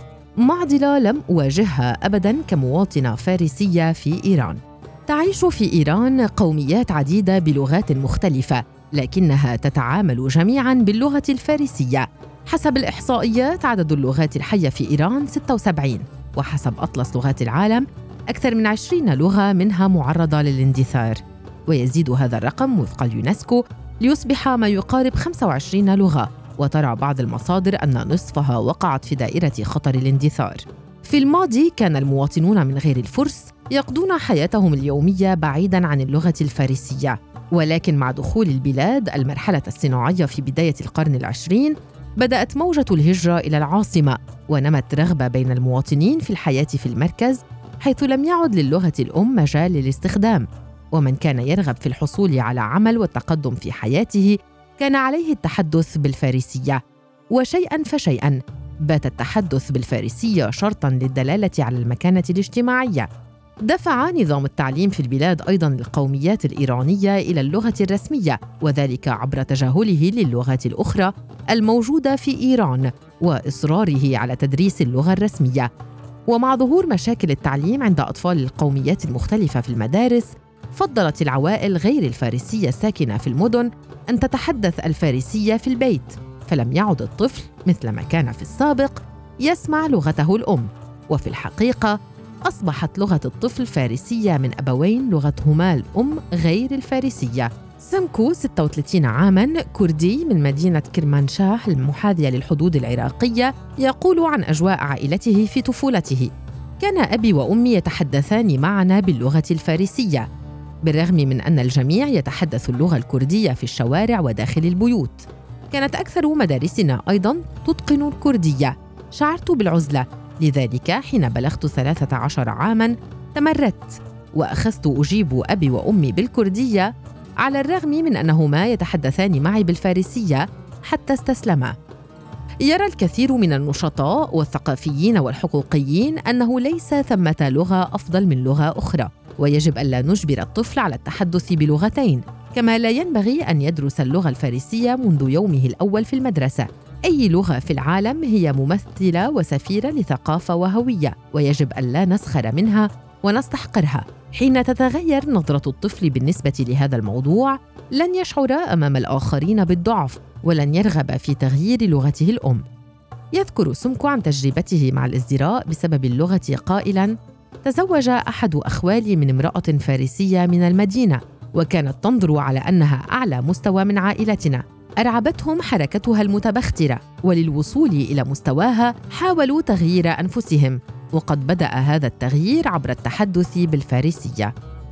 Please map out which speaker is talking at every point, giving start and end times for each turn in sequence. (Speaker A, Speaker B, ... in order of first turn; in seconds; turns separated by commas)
Speaker A: 0.4-56.8, Speaker A: 57.3-63.1, Speaker A: 63.6-75.7, Speaker A: 76.3-110.3, Speaker A: 110.8-131.7, Speaker A: 132.6-162.6, Speaker A: 163.3-184.5